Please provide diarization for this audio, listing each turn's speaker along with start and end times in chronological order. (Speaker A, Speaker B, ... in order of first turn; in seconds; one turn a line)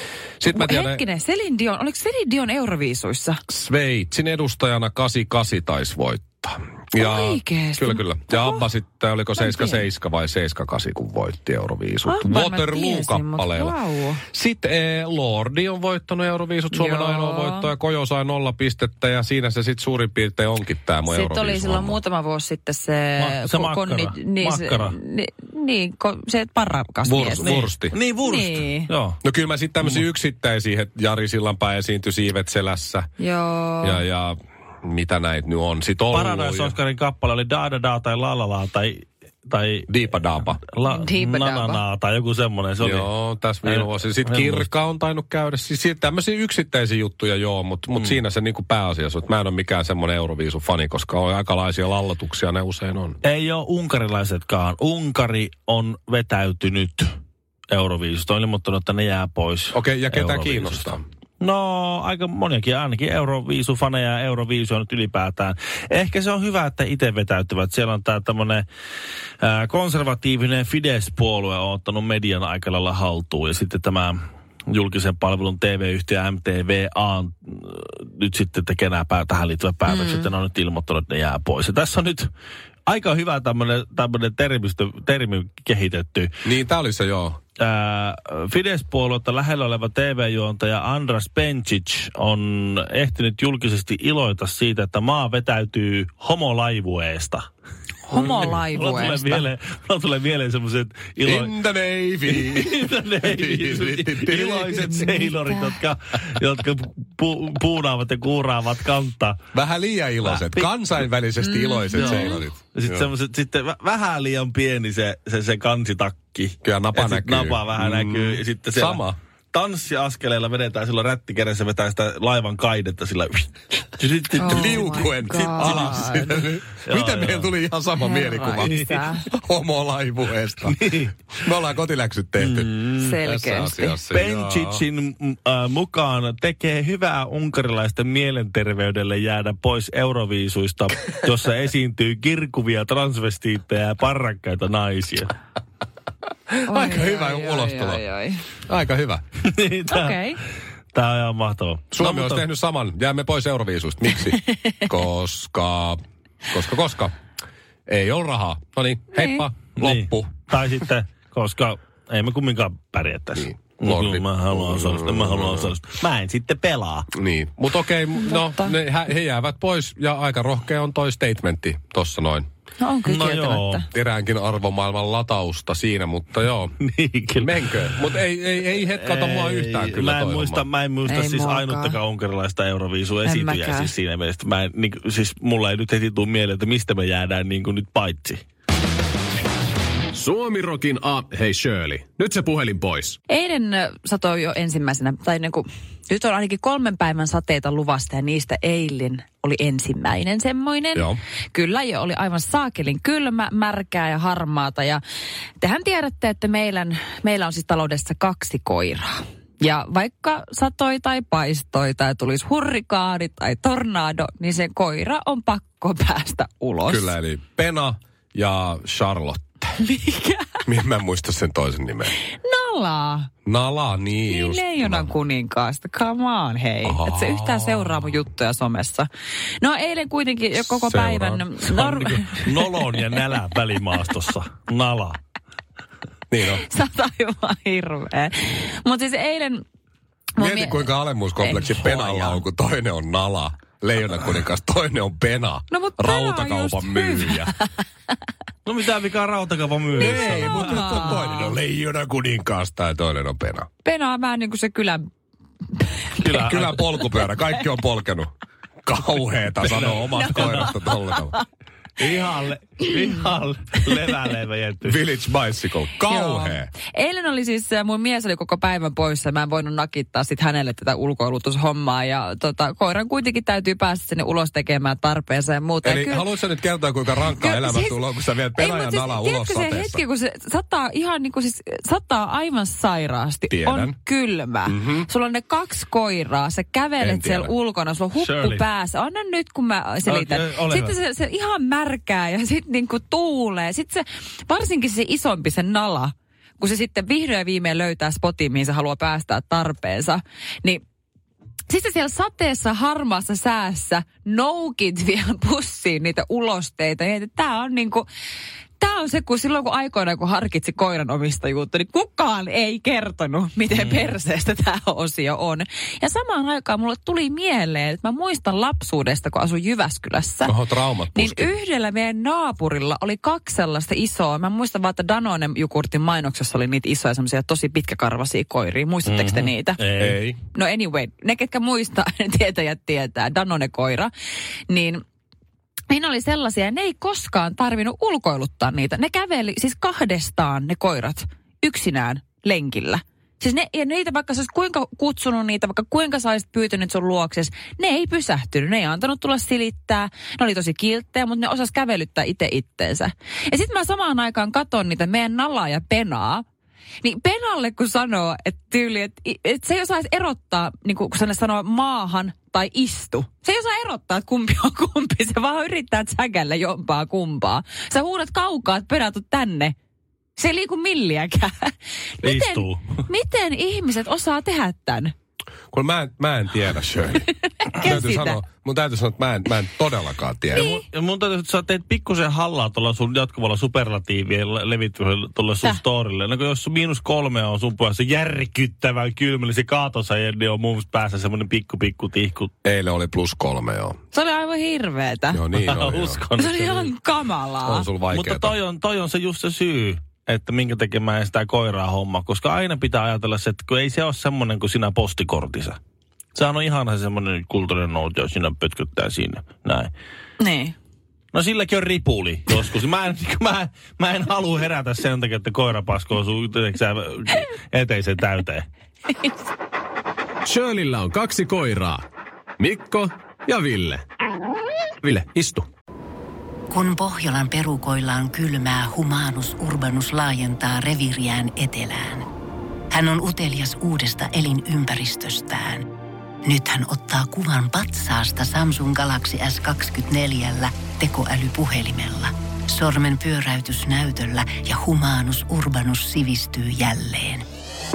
Speaker A: 0.4-1.0
Speaker B: 0.5-3.4
Speaker A: 3.5-13.8
Speaker B: 7.0-8.7
Speaker B: 9.4-9.8
Speaker B: 12.1-14.2
Speaker A: 14.3-22.0
Speaker B: 16.7-17.7
Speaker B: 21.1-27.5
Speaker C: 23.2-25.0
Speaker A: 27.1-27.9
Speaker C: 27.4-29.2
Speaker B: 28.2-28.9
Speaker A: 29.2-33.1
Speaker B: 33.2-34.0
Speaker A: 33.8-36.8
Speaker C: 36.1-39.9
Speaker A: 39.9-40.6
Speaker C: 40.5-43.1
Speaker B: 40.9-41.8
Speaker A: 42.8-53.2
Speaker C: 43.6-44.7
Speaker C: 53.2-57.2
Speaker C: 57.7-68.7
Speaker A: 59.7-61.0
Speaker C: 69.4-82.3
Speaker B: 79.9-80.3
Speaker C: 82.9-86.4
Speaker A: 86.5-87.4
Speaker C: 87.6-97.5
Speaker B: 98.1-99.5
Speaker C: 98.1-101.5
Speaker A: 101.2-105.1
Speaker C: 102.3-109.4
Speaker B: 105.1-105.7
Speaker A: 109.5-113.1
Speaker C: 110.2-110.7
Speaker B: 111.5-112.4
Speaker C: 111.9-124.9
Speaker A: 116.6-119.2
Speaker A: 124.3-130.8
Speaker B: 124.4-126.4
Speaker C: 125.6-126.2
Speaker C: 126.8-127.5
Speaker B: 128.0-129.3
Speaker C: 128.6-129.0
Speaker C: 130.7-131.2
Speaker A: 131.4-134.8
Speaker C: 132.4-133.1
Speaker B: 133.0-134.0
Speaker C: 134.1-145.3
Speaker A: 146.5-148.0
Speaker B: 146.7-148.4
Speaker A: 148.7-149.2
Speaker C: 149.4-150.2
Speaker B: 149.9-150.4
Speaker C: 150.9-152.4
Speaker A: 151.9-157.2
Speaker B: 154.5-154.9
Speaker A: 157.9-160.3
Speaker B: 159.2-159.4
Speaker C: 159.8-167.1
Speaker A: 163.4-165.7
Speaker A: 167.1-172.5
Speaker B: 168.2-168.7
Speaker B: 172.8-173.9
Speaker C: 173.1-173.8
Speaker A: 173.9-176.7
Speaker C: 176.8-178.1
Speaker A: 177.4-180.7
Speaker C: 178.7-188.4
Speaker B: 181.1-182.0
Speaker B: 183.2-183.9
Speaker D: 190.1-193.2
Speaker B: 193.3-205.0
Speaker B: 205.6-217.1
Speaker A: 216.9-219.8
Speaker B: 219.8-220.6
Speaker A: 220.7-222.2
Speaker B: 222.2-223.3
Speaker A: 223.4-225.1
Speaker B: 224.3-229.1
Speaker A: 226.8-228.1
Speaker B: 229.6-233.2
Speaker A: 230.7-231.4
Speaker C: 231.7-235.2
Speaker A: 236.3-236.6
Speaker B: 236.5-239.6
Speaker B: 240.4-242.4
Speaker A: 240.4-247.6
Speaker B: 245.7-247.7
Speaker C: 248.7-251.2
Speaker A: 250.0-253.7
Speaker B: 250.0-251.6
Speaker B: 253.8-255.1
Speaker B: 255.8-256.2
Speaker C: 256.2-256.8
Speaker A: 256.4-258.3
Speaker A: 258.9-261.4
Speaker C: 259.6-260.8
Speaker B: 260.1-261.4
Speaker C: 262.0-265.0
Speaker A: 264.8-266.7
Speaker B: 266.1-276.3
Speaker A: 275.8-280.0
Speaker B: 277.3-278.0
Speaker B: 278.6-300.8
Speaker A: 283.5-284.0
Speaker A: 284.7-285.1
Speaker A: 287.0-287.5
Speaker C: 288.2-288.6
Speaker C: 290.1-290.9
Speaker B: 301.7-308.1
Speaker B: 308.8-320.6
Speaker C: 313.7-314.2
Speaker A: 320.5-321.5
Speaker B: 321.1-329.8
Speaker C: 329.1-330.2
Speaker A: 330.0-330.4
Speaker B: 330.5-334.1
Speaker B: 334.7-335.0
Speaker B: 335.9-356.4
Speaker B: 357.0-369.8
Speaker B: 370.4-375.1
Speaker C: 372.2-373.0
Speaker A: 375.7-380.7
Speaker B: 377.6-378.4
Speaker C: 380.5-392.5
Speaker B: 380.6-380.9
Speaker A: 392.6-394.0
Speaker B: 394.1-395.4
Speaker A: 395.3-396.2
Speaker C: 395.6-396.9
Speaker B: 396.4-397.9
Speaker A: 397.6-398.6
Speaker C: 398.1-405.8
Speaker C: 406.4-409.9
Speaker B: 410.4-410.8
Speaker C: 411.3-418.7
Speaker D: 420.4-422.1
Speaker D: 422.6-424.1
Speaker D: 425.0-425.7
Speaker E: 426.7-432.3
Speaker E: 432.9-435.9
Speaker E: 436.4-447.4